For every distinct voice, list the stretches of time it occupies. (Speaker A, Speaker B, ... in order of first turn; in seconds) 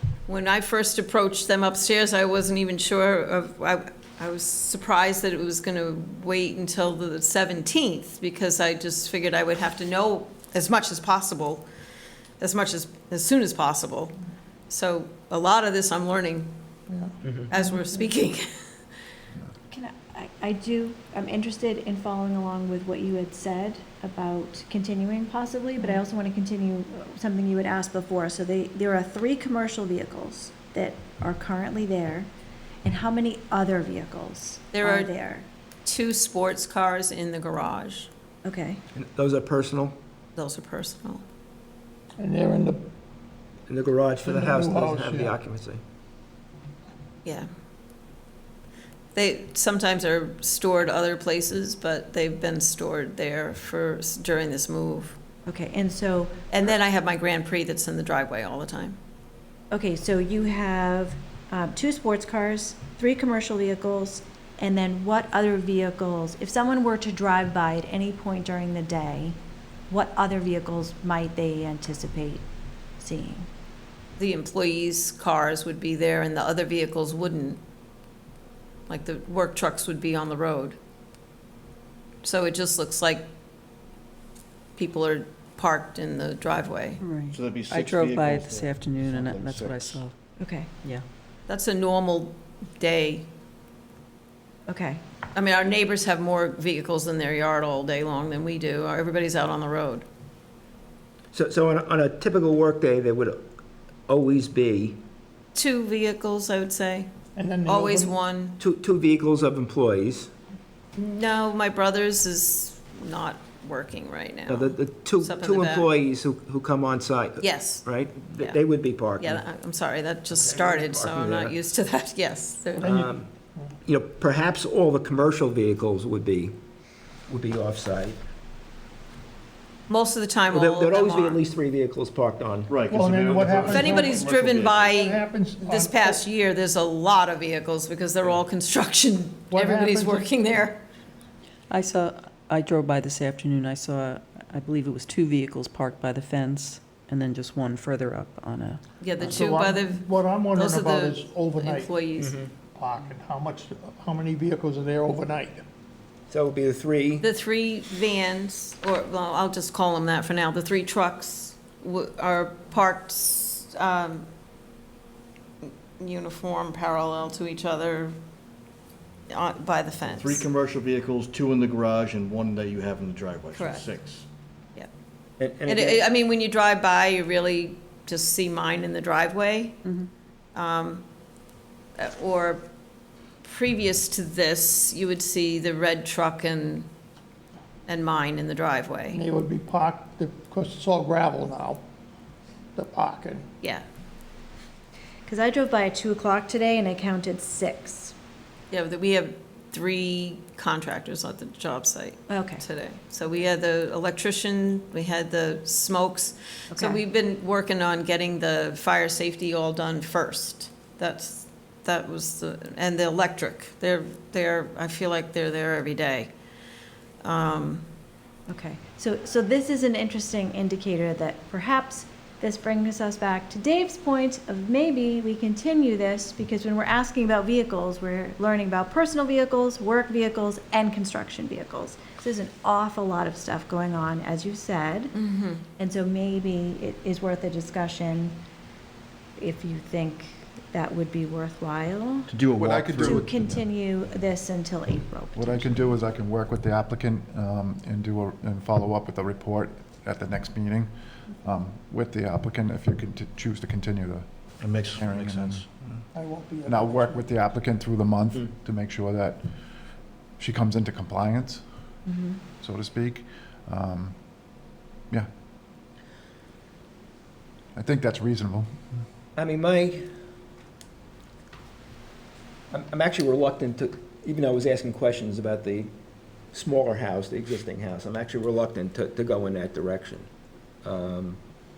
Speaker A: 0.3-11.7, 12.4-14.1, 14.7-16.5, 17.5-18.5, 34.7-35.1, 35.9-38.1, 40.4-41.2, 49.1-55.2, 56.5-59.0, 74.2-77.6, 78.9-80.8, 82.2-83.3, 84.8-87.0, 91.5-93.3, 95.3-100.0, 105.5-107.1, 107.7-108.6, 111.0-115.9, 117.4-118.6, 119.2-122.9, 129.9-131.4, 133.7-140.8, 149.0-152.3, 157.2-164.3, 165.6-168.2, 169.3-170.4, 173.5-173.9, 175.7-179.8, 180.6-181.1, 182.0-182.6, 183.4-186.9, 187.9-189.2, 198.7-216.3, 217.2-217.9, 235.1-235.6
Speaker B: 16.9-17.1, 42.2-42.8, 44.2-45.4, 107.4-108.2, 122.8-123.7, 132.9-134.3, 135.0-136.2, 139.5-140.3, 149.3-152.0, 152.7-155.6, 189.1-191.8, 192.8-193.5, 256.1-257.2
Speaker C: 17.2-17.5, 39.0-40.0, 43.7-45.8, 101.3-103.4, 104.1-105.0, 108.6-110.3, 114.5-119.4, 120.3-121.5, 122.8-123.3, 123.9-126.5, 127.3-128.2, 130.5-132.7, 152.2-152.5, 156.3-157.2, 175.4-176.0, 269.4-270.1, 272.7-275.9, 276.5-280.3, 280.8-281.4
Speaker D: 19.7-32.3, 32.8-35.5, 38.4-38.8, 55.5-56.4, 59.7-72.5, 73.0-73.5, 90.4-90.7, 94.7-95.0, 195.3-198.2, 202.3-202.6, 206.7-207.0, 218.5-235.1, 235.8-238.4, 239.4-242.3, 243.1-246.0, 262.1-262.4
Speaker E: 87.0-90.1, 141.7-149.4
Speaker F: 87.3-90.0, 132.7-135.1, 170.1-174.3, 242.3-243.6, 254.6-255.9
Speaker G: 242.6-243.6, 245.3-250.9, 251.4-254.3, 254.9-255.7, 256.7-259.5, 260.4-261.6, 262.6-264.3, 267.8-269.1